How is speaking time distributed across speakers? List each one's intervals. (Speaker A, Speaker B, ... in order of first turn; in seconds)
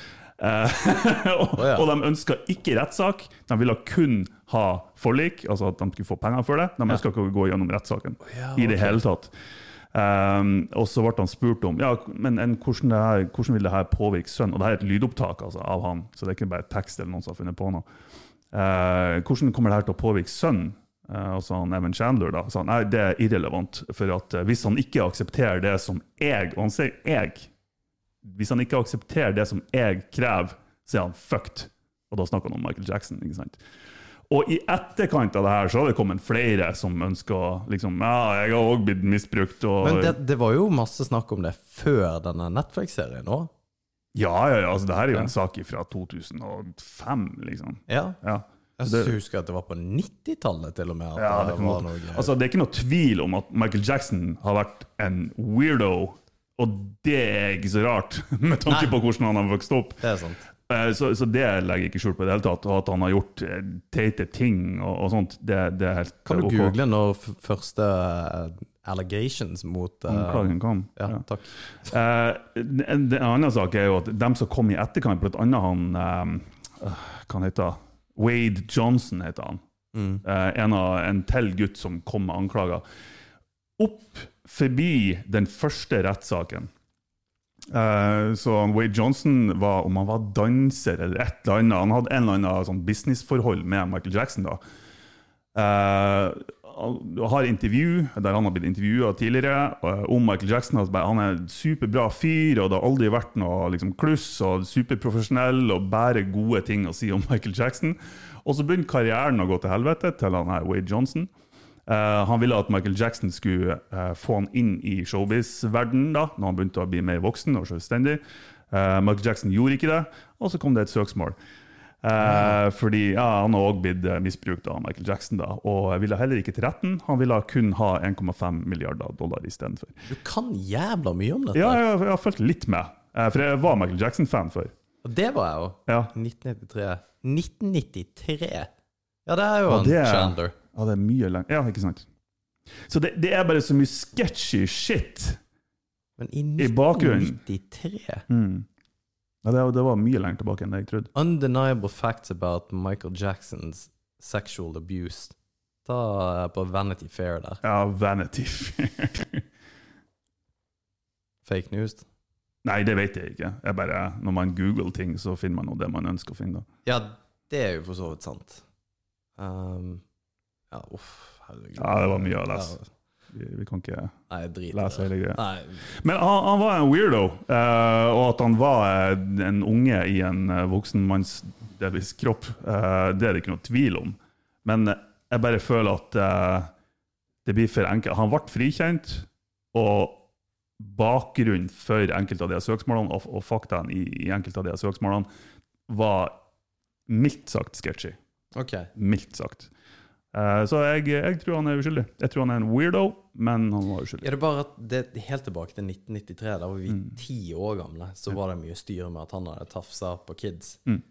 Speaker A: 0.4-9.3, 9.9-17.9, 18.5-27.5, 28.2-33.6, 34.3-40.1, 44.1-49.1, 51.1-60.0, 60.6-66.7, 70.1-71.2, 71.8-79.6, 80.2-82.8, 83.8-86.7, 87.7-94.6, 95.5-111.3, 111.8-121.4, 122.0-130.1, 131.5-134.7, 135.9-136.1, 139.7-142.1, 142.9-145.4, 146.6-147.4, 148.3-148.7, 149.4-151.1, 157.6-159.4, 162.6-166.7, 171.8-172.8, 173.3-174.2, 174.7-186.7, 187.4-190.2, 190.8-195.3, 195.9-196.4, 197.1-198.2, 198.9-199.7, 200.3-204.3
Speaker B: 1.5-1.9, 8.2-9.0, 39.8-43.5, 47.9-48.2, 48.8-52.3, 58.7-58.9, 60.0-60.4, 66.3-71.5, 79.9-80.2, 122.2-122.5, 130.1-131.8, 135.0-138.7, 139.2-140.5, 146.2-148.2, 151.1-157.6, 161.4-162.1, 166.8-168.6, 169.4-170.0, 170.7-172.9, 174.3-175.8, 198.5-198.9, 204.2-210.8